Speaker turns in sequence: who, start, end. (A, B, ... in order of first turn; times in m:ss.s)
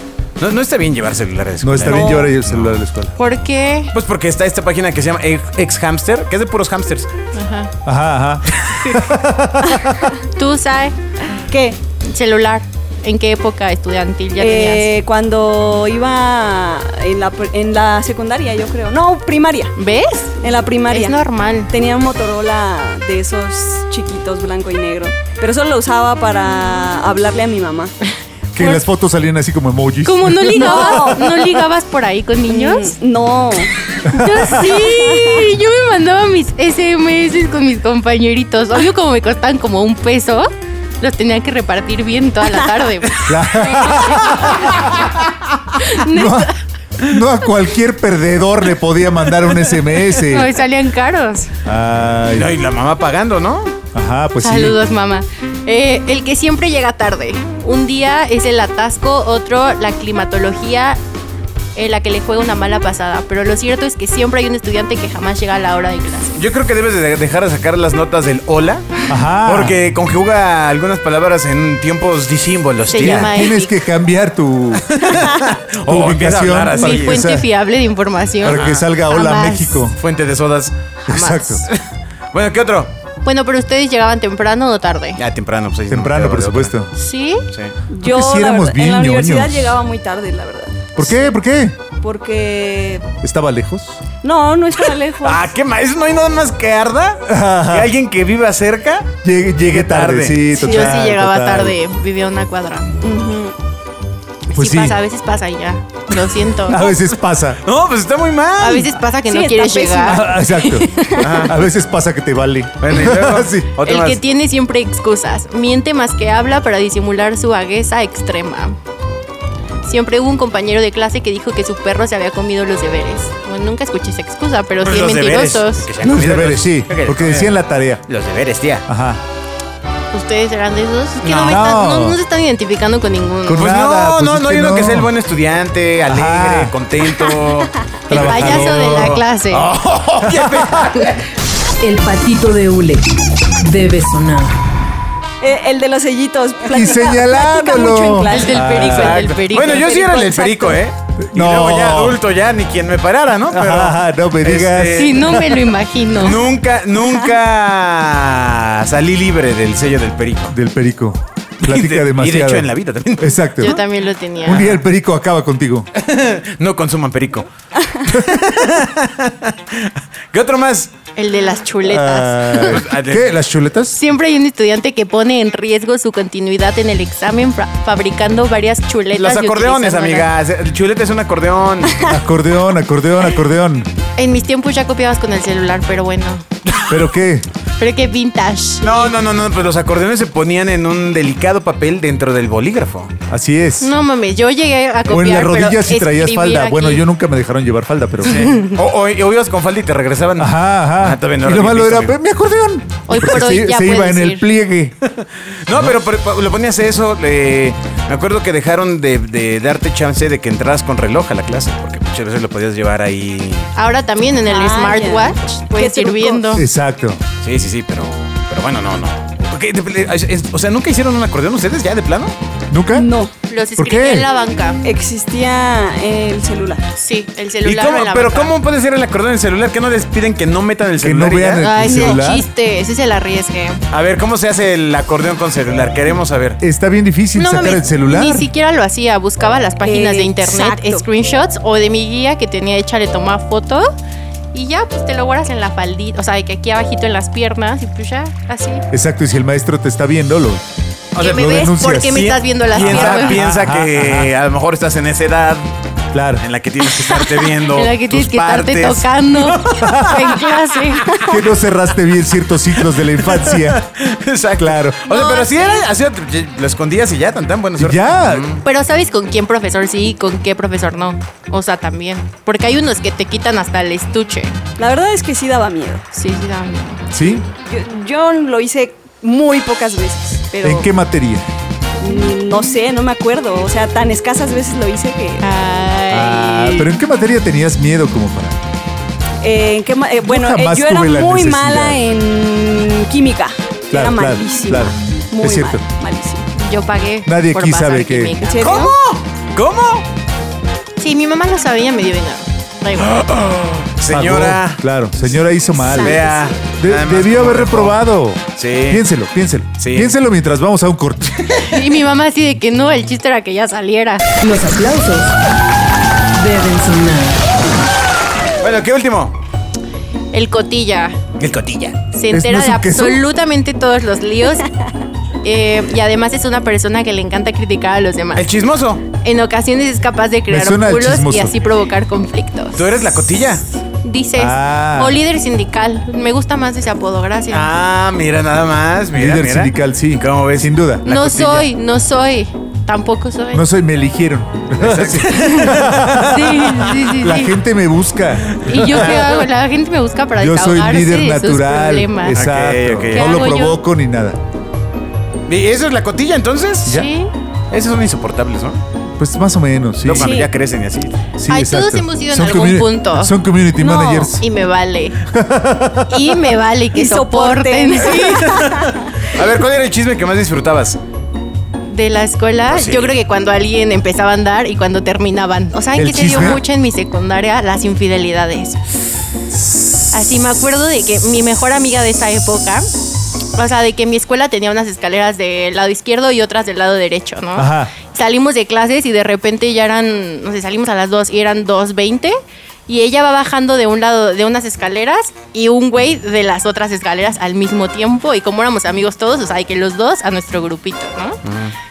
0:00.4-0:02.8 A
0:01.6-0:03.1 B
0:01.9-0:02.3 C
0:03.2-0:03.9 D
0:03.9-0:07.1 A
0:07.3-0:07.7 D
0:07.8-0:10.1 B
0:10.3-0:11.0 D
0:11.5-0:11.8 C
0:12.0-0:14.9 D
0:14.4-0:19.7 C
0:19.8-0:20.3 D
0:20.4-0:21.2 C
0:20.9-0:21.7 D
0:21.7-0:27.9 C
0:28.5-0:31.2 B
0:28.6-0:28.8 D
0:30.0-0:33.0 D
0:30.5-0:31.6 C
0:32.5-0:33.7 C
0:34.0-0:40.5 D
0:34.1-0:34.6 B
0:34.4-0:35.5 C
0:41.0-0:44.6 D
0:43.2-0:45.1 B
0:45.8-0:46.6 D
0:45.9-0:50.5 B
0:50.2-0:51.5 D
0:51.6-0:52.5 B
0:52.3-0:53.7 A
0:53.9-0:54.8 B
0:54.4-1:01.0 D
1:01.7-1:06.4 D
1:06.4-1:13.3 A
1:09.1-1:09.8 B
1:12.9-1:13.7 D
1:13.0-1:15.3 B
1:14.9-1:17.2 A
1:15.8-1:17.5 B
1:16.7-1:19.9 D
1:18.4-1:20.0 B
1:18.4-1:18.8 A
1:20.0-1:20.7 A
1:21.1-1:21.6 B
1:21.1-1:21.6 D
1:22.3-1:22.9 A
1:23.2-1:25.2 D
1:25.2-1:26.7 A
1:25.9-1:26.9 B
1:26.9-1:27.4 D
1:27.9-1:31.1 C
1:28.0-1:29.7 B
1:31.0-1:31.8 B
1:32.0-1:33.1 C
1:33.2-1:34.0 B
1:34.2-1:35.5 C
1:35.2-1:40.5 A
1:37.3-1:37.9 B
1:39.2-1:41.8 B
1:40.5-1:42.9 D
1:43.0-1:43.5 C
1:44.5-1:46.8 D
1:44.5-1:45.0 B
1:46.7-1:47.6 B
1:47.6-1:48.9 A
1:48.6-1:51.1 D
1:49.3-1:50.4 C
1:50.0-1:53.7 B
1:50.9-1:51.3 C
1:51.2-1:51.6 A
1:52.8-1:54.2 A
1:53.8-1:58.8 D
1:59.8-2:05.9 D
2:04.8-2:07.6 A
2:06.0-2:08.0 B
2:08.1-2:08.8 A
2:08.9-2:09.2 B
2:10.1-2:13.7 D
2:11.2-2:11.6 A
2:11.3-2:12.2 B
2:13.4-2:15.1 B
2:13.6-2:21.3 A
2:16.1-2:16.7 B
2:18.1-2:19.2 B
2:18.1-2:19.7 D
2:20.2-2:20.9 B
2:21.8-2:24.6 E
2:25.4-2:28.6 C
2:26.7-2:29.2 B
2:28.3-2:30.3 D
2:28.8-2:35.2 A
2:29.7-2:30.8 C
2:31.2-2:32.2 B
2:33.5-2:35.7 B
2:34.9-2:36.4 D
2:36.2-2:40.6 A
2:40.5-2:43.8 B
2:41.6-2:43.8 A
2:43.6-2:44.6 D
2:44.4-2:45.9 B
2:44.4-2:44.8 A
2:46.0-2:47.5 A
2:48.0-2:50.9 A
2:51.2-2:52.8 D
2:51.8-2:54.0 B
2:52.7-2:53.3 A
2:53.9-3:00.3 D
2:59.2-3:02.1 A
3:02.0-3:03.9 B
3:04.2-3:06.4 D
3:06.9-3:07.5 B
3:07.8-3:09.1 D
3:08.8-3:13.1 A
3:13.3-3:13.9 B
3:13.8-3:17.0 D
3:15.1-3:18.5 B
3:18.2-3:22.2 A
3:18.4-3:18.7 D
3:20.4-3:25.0 B
3:23.1-3:24.4 D
3:25.2-3:33.7 A
3:33.8-3:36.6 D
3:34.5-3:36.6 C
3:36.5-3:37.2 B
3:37.4-3:42.3 A
3:42.7-3:43.1 B
3:42.9-3:43.3 C
3:43.5-3:44.8 D
3:43.8-3:44.2 B
3:44.8-3:46.8 C
3:46.9-3:48.5 D
3:47.6-3:52.0 A
3:51.0-3:52.4 B
3:51.6-3:53.8 D
3:53.9-3:56.6 A
3:56.6-3:58.5 B
3:57.3-4:03.9 D
3:59.8-4:01.0 C
4:04.5-4:08.8 D
4:08.9-4:14.3 B
4:11.1-4:11.5 A
4:11.1-4:13.4 D
4:12.0-4:15.6 A
4:16.1-4:16.4 B
4:16.4-4:21.4 A
4:17.0-4:21.2 D
4:19.8-4:20.1 B
4:21.2-4:23.8 B
4:22.8-4:28.6 A
4:24.6-4:25.1 B
4:25.1-4:25.8 D
4:27.8-4:28.4 B
4:28.6-4:34.6 D
4:34.8-4:36.0 C
4:36.1-4:37.0 D
4:37.1-4:37.4 B
4:37.5-4:40.9 C
4:40.6-4:41.5 B
4:42.0-4:45.4 C
4:45.4-4:46.9 D
4:46.1-4:48.6 B
4:49.4-4:56.4 C
4:50.2-4:52.0 B
4:53.9-4:55.8 B
4:56.5-4:58.9 D
4:57.2-4:58.4 B
4:58.4-4:58.9 C
4:58.6-5:00.0 A
5:01.0-5:03.1 D
5:03.0-5:05.3 A
5:04.1-5:06.2 B
5:05.7-5:06.5 C
5:05.8-5:08.0 A
5:06.7-5:11.5 B
5:08.6-5:09.0 A
5:09.8-5:10.2 A
5:11.4-5:11.7 A
5:11.6-5:14.2 D
5:14.4-5:15.4 E
5:16.3-5:17.4 E
5:18.6-5:19.3 A
5:20.3-5:21.2 D
5:21.4-5:22.0 A
5:22.1-5:24.7 D
5:22.3-5:23.2 B
5:25.4-5:28.5 D
5:28.3-5:29.0 A
5:29.1-5:37.7 D
5:30.5-5:31.5 B
5:32.8-5:33.6 A
5:34.4-5:35.2 B
5:37.5-5:41.7 A
5:39.1-5:41.0 B
5:41.0-5:43.6 D
5:43.5-5:49.2 B
5:44.8-5:46.8 A
5:45.4-5:47.6 D
5:48.5-5:49.4 A
5:48.6-5:52.4 D
5:50.4-5:54.4 B
5:52.3-5:53.3 A
5:53.1-5:53.8 D
5:55.5-5:57.0 A
5:56.8-5:57.3 D
5:57.7-5:58.8 A
5:59.2-6:00.4 B
6:00.0-6:01.2 A
6:00.1-6:00.5 C
6:01.4-6:04.4 B
6:01.5-6:03.3 D
6:03.8-6:04.3 C
6:04.4-6:05.2 D
6:05.2-6:06.3 B
6:06.1-6:08.6 D
6:06.9-6:09.0 C
6:08.2-6:11.0 A
6:11.9-6:18.8 D
6:12.7-6:13.2 A
6:16.0-6:16.6 B
6:16.3-6:16.6 A
6:20.1-6:22.9 D
6:23.5-6:41.4 D
6:27.6-6:27.9 B
6:41.4-6:41.7 A